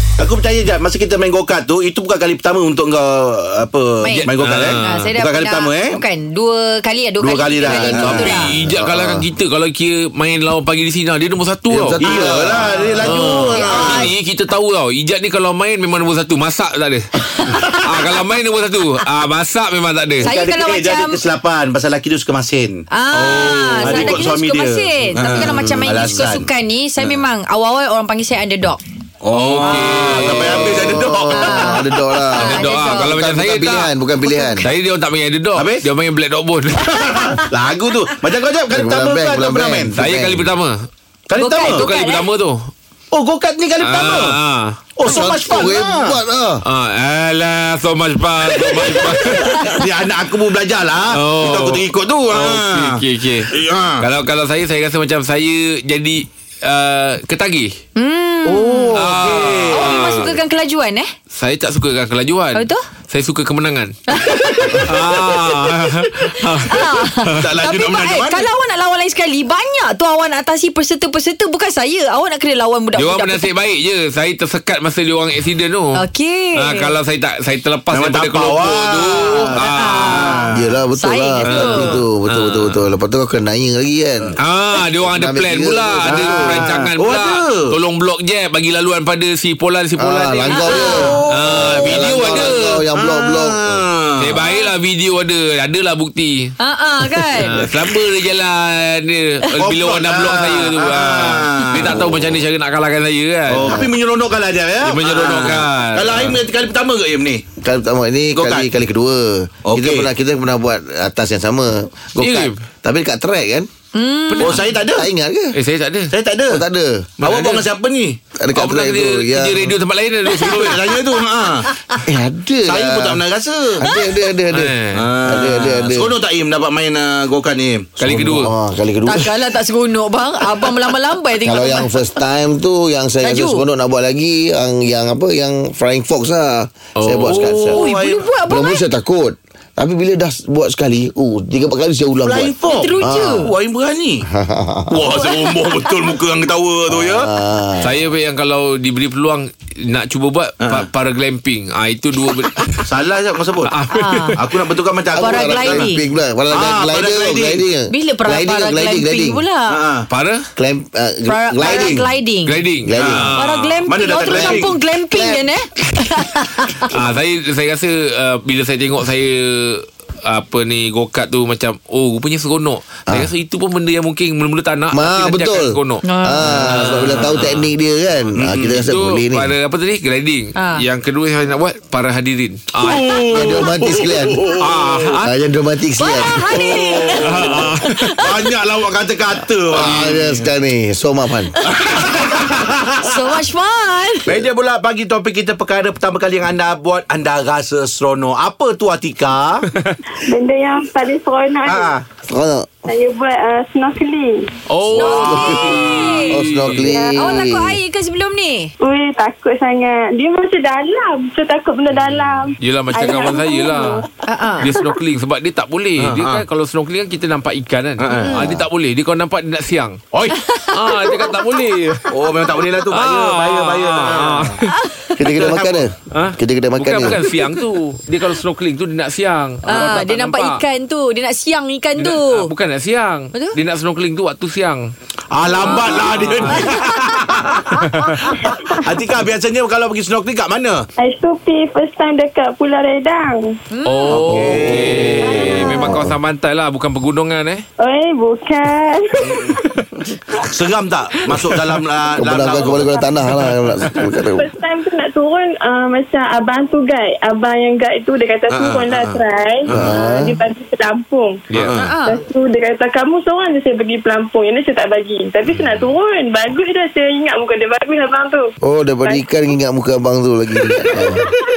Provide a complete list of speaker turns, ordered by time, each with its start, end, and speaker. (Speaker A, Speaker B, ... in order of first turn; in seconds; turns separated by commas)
Speaker A: 0.2-6.0, Speaker B: 4.0-4.3, Speaker C: 4.2-5.1, Speaker B: 4.8-8.5, Speaker A: 7.2-8.4, Speaker D: 7.7-9.3, Speaker C: 7.9-12.0, Speaker D: 11.7-13.0, Speaker A: 12.0-14.1, Speaker B: 12.1-13.0, Speaker C: 13.0-17.1, Speaker B: 13.5-14.1, Speaker B: 17.4-17.6, Speaker C: 17.6-20.3, Speaker B: 20.2-21.2, Speaker A: 20.2-26.5, Speaker B: 22.9-28.8, Speaker A: 29.2-31.8, Speaker C: 29.3-30.8, Speaker D: 30.5-34.7, Speaker B: 31.3-33.1, Speaker C: 32.4-33.9, Speaker C: 34.6-36.9, Speaker A: 35.6-35.8, Speaker A: 36.8-40.0, Speaker D: 38.7-40.5, Speaker C: 40.0-40.8, Speaker A: 41.3-41.9, Speaker B: 41.4-42.2, Speaker C: 41.6-42.7, Speaker A: 43.1-44.4, Speaker C: 43.8-44.8, Speaker A: 45.0-46.1, Speaker D: 45.0-46.6, Speaker C: 46.6-49.7, Speaker A: 48.5-54.0, Speaker B: 49.3-49.6, Speaker C: 51.1-57.8, Speaker B: 58.0-59.0, Speaker A: 58.4-60.3, Speaker C: 58.9-60.3, Speaker B: 59.7-61.1, Speaker C: 61.3-63.9, Speaker B: 62.5-62.8, Speaker B: 64.1-64.9, Speaker A: 64.4-66.8, Speaker C: 64.8-67.5, Speaker B: 66.4-73.5, Speaker A: 67.3-68.4, Speaker C: 73.0-76.0, Speaker B: 75.9-76.9, Speaker C: 76.5-80.3, Speaker A: 77.9-80.6, Speaker B: 79.6-82.0, Speaker D: 80.5-84.3, Speaker A: 81.5-81.9, Speaker C: 82.3-82.8, Speaker C: 84.4-92.8, Speaker D: 85.1-86.7, Speaker A: 86.0-87.7, Speaker D: 90.0-93.8, Speaker B: 90.5-91.1, Speaker A: 91.0-92.4, Speaker A: 92.9-94.3, Speaker C: 94.2-96.5, Speaker B: 94.4-94.7, Speaker B: 96.6-97.5, Speaker C: 97.4-103.8, Speaker A: 99.6-102.1, Speaker D: 101.9-102.4, Speaker A: 103.5-107.5, Speaker D: 103.6-103.9, Speaker C: 104.8-106.3, Speaker D: 107.6-113.7, Speaker A: 108.3-108.7, Speaker A: 109.7-110.1, Speaker C: 112.2-112.6, Speaker B: 113.9-114.6, Speaker A: 114.4-115.1, Speaker D: 114.9-115.5, Speaker C: 115.5-116.1, Speaker A: 116.1-116.6, Speaker D: 116.5-117.1, Speaker C: 117.2-117.7, Speaker A: 117.2-118.2, Speaker D: 118.4-119.7, Speaker C: 118.5-120.9, Speaker A: 120.3-121.7, Speaker D: 122.0-123.2, Speaker A: 122.7-123.8, Speaker D: 123.8-126.1, Speaker C: 124.5-125.1, Speaker A: 124.9-128.0, Speaker C: 128.0-128.5, Speaker D: 128.0-129.5, Speaker B: 129.1-132.0, Speaker D: 131.4-137.8, Speaker B: 133.2-133.6, Speaker C: 137.0-137.6, Speaker A: 137.5-138.2, Speaker B: 137.7-138.8, Speaker D: 138.5-143.4, Speaker A: 142.2-144.2, Speaker B: 142.7-143.5, Speaker D: 144.3-145.3, Speaker A: 144.9-147.3, Speaker B: 145.5-145.9, Speaker D: 146.9-148.0, Speaker C: 147.8-152.8, Speaker A: 152.8-153.7, Speaker C: 153.7-154.3, Speaker B: 153.9-154.3, Speaker A: 154.4-155.8, Speaker D: 155.1-159.4, Speaker B: 155.2-156.0, Speaker A: 156.5-157.6, Speaker B: 157.9-159.7, Speaker A: 159.7-160.1, Speaker C: 160.1-160.4, Speaker D: 160.6-162.1, Speaker B: 161.2-162.6, Speaker A: 161.6-162.0, Speaker C: 162.4-163.8, Speaker D: 162.8-163.3, Speaker A: 162.9-163.3, Speaker B: 163.4-166.9, Speaker A: 163.9-164.7, Speaker D: 164.3-164.6, Speaker D: 165.1-165.5, Speaker C: 166.9-177.7, Speaker D: 174.9-179.5, Speaker B: 176.0-176.4, Speaker A: 176.5-177.4, Speaker A: 178.4-178.8, Speaker C: 178.8-183.5, Speaker B: 180.6-180.8, Speaker A: 182.8-185.1, Speaker D: 183.3-184.5, Speaker C: 184.6-185.3, Speaker D: 185.2-186.7, Speaker B: 186.0-188.3, Speaker A: 186.5-190.5, Speaker C: 187.2-188.2, Speaker D: 189.7-191.5, Speaker A: 191.7-193.2, Speaker B: 193.0-194.3, Speaker A: 194.3-199.7, Speaker C: 199.7-200.0, Speaker E: 200.2-201.9, Speaker A: 201.6-202.0, Speaker D: 202.3-202.7, Speaker E: 202.8-204.5, Speaker C: 204.7-206.9, Speaker D: 204.9-207.8, Speaker B: 205.0-206.3, Speaker E: 206.9-207.2, Speaker B: 207.2-208.7, Speaker E: 208.8-214.1, Speaker C: 211.9-214.0, Speaker B: 214.3-214.7, Speaker C: 214.6-220.0, Speaker A: 216.0-216.4, Speaker A: 218.0-218.5, Speaker B: 218.2-218.5, Speaker A: 220.1-220.4, Speaker B: 220.4-220.8, Speaker C: 220.7-222.1, Speaker A: 222.1-224.6, Speaker C: 222.8-224.7, Speaker B: 224.7-225.4, Speaker D: 225.2-227.2, Speaker A: 225.3-225.8, Speaker C: 226.1-230.6, Speaker B: 229.7-232.5, Speaker C: 232.0-234.9, Speaker A: 235.3-240.9, Speaker C: 235.6-236.7, Speaker B: 235.7-235.9, Speaker B: 236.5-237.8, Speaker C: 237.8-238.2, Speaker E: 241.0-243.5, Speaker B: 243.7-244.1, Speaker C: 243.8-247.6, Speaker A: 244.1-245.6, Speaker D: 244.3-246.1, Speaker E: 245.5-245.8, Speaker E: 247.8-249.6, Speaker A: 249.2-249.6, Speaker A: 250.4-252.9, Speaker D: 252.2-254.5, Speaker E: 254.2-261.4, Speaker A: 258.5-260.0, Speaker D: 259.7-260.4, Speaker A: 261.6-261.9, Speaker B: 261.7-262.2, Speaker E: 262.0-268.5, Speaker A: 265.5-265.9, Speaker D: 268.6-271.3, Speaker E: 269.0-269.3, Speaker E: 270.8-271.3